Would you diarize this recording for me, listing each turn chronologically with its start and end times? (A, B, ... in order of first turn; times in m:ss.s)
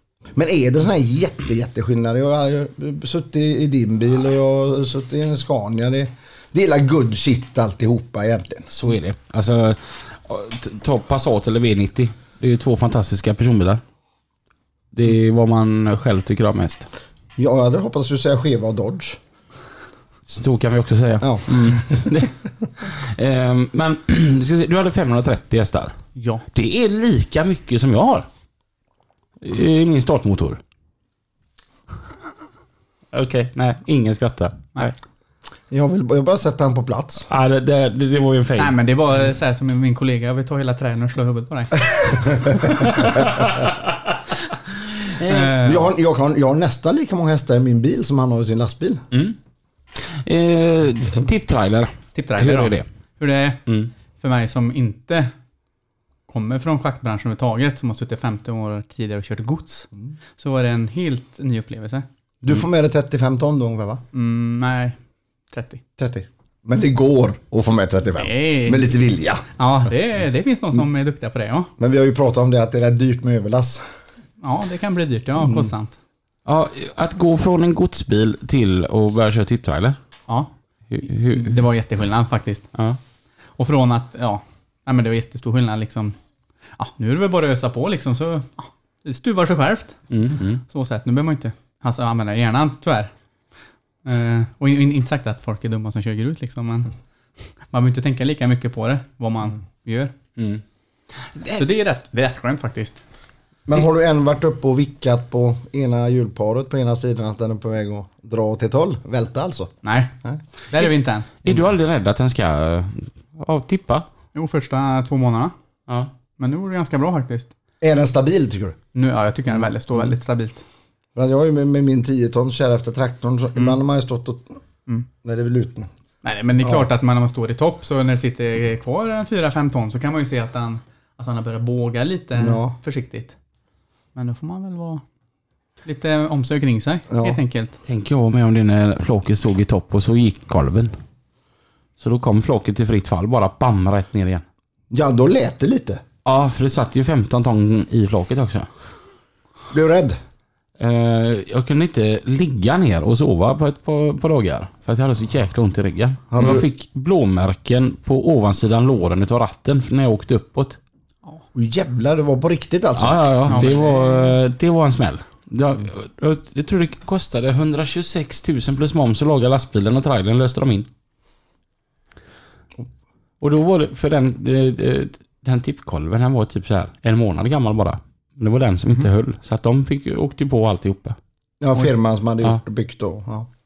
0:00.3-0:08.7 A
0:08.7-0:13.8 B
0:14.9-0:16.9 B
0:17.4-0:19.2 A
0:20.3-0:26.0 B
0:21.2-0:22.1 A
0:26.2-0:26.4 C
0:26.5-0:28.3 B
0:29.4-0:30.6 B
0:33.1-0:34.9 B
0:35.7-0:37.3 A
0:37.3-0:38.8 B
0:38.6-0:43.2 C
0:42.2-0:43.4 A
0:43.2-0:43.9 B
0:45.0-0:45.6 B
0:45.2-0:45.9 C
0:45.6-0:49.0 A
0:50.0-0:52.8 B
0:52.1-0:55.3 C
0:56.3-1:02.0 C
1:02.4-1:04.0 A
1:04.1-1:05.0 C
1:05.5-1:05.8 C
1:06.0-1:09.4 A
1:08.2-1:09.0 C
1:09.6-1:11.7 C
1:11.8-1:13.8 A
1:14.4-1:16.0 C
1:16.4-1:20.0 B
1:20.9-1:21.6 B
1:21.1-1:22.7 C
1:23.6-1:26.2 C
1:26.8-1:30.0 C
1:30.1-1:30.6 B
1:30.6-1:33.1 C
1:34.0-1:36.9 C
1:37.7-1:40.1 C
1:40.4-1:40.6 B
1:41.3-1:41.7 B
1:41.5-1:43.0 C
1:43.7-1:49.7 A
1:49.8-1:50.1 C
1:50.7-1:51.4 C
1:51.4-1:54.0 B
1:54.3-1:55.5 C
1:56.4-1:57.5 C
1:57.8-1:58.8 A
1:58.9-2:00.6 C
2:01.1-2:04.6 A
2:05.2-2:05.9 A
2:06.2-2:13.4 C
2:12.4-2:12.7 A
2:14.1-2:15.0 C
2:15.8-2:17.8 C
2:17.1-2:17.4 A
2:17.8-2:20.9 B
2:22.0-2:24.4 B
2:24.9-2:26.0 A
2:26.2-2:28.7 B
2:29.7-2:30.2 A
2:30.8-2:40.8 B
2:36.3-2:36.6 A
2:41.5-2:43.5 A
2:43.0-2:50.9 B
2:43.5-2:44.4 C
2:53.4-3:01.2 B
3:01.6-3:03.5 A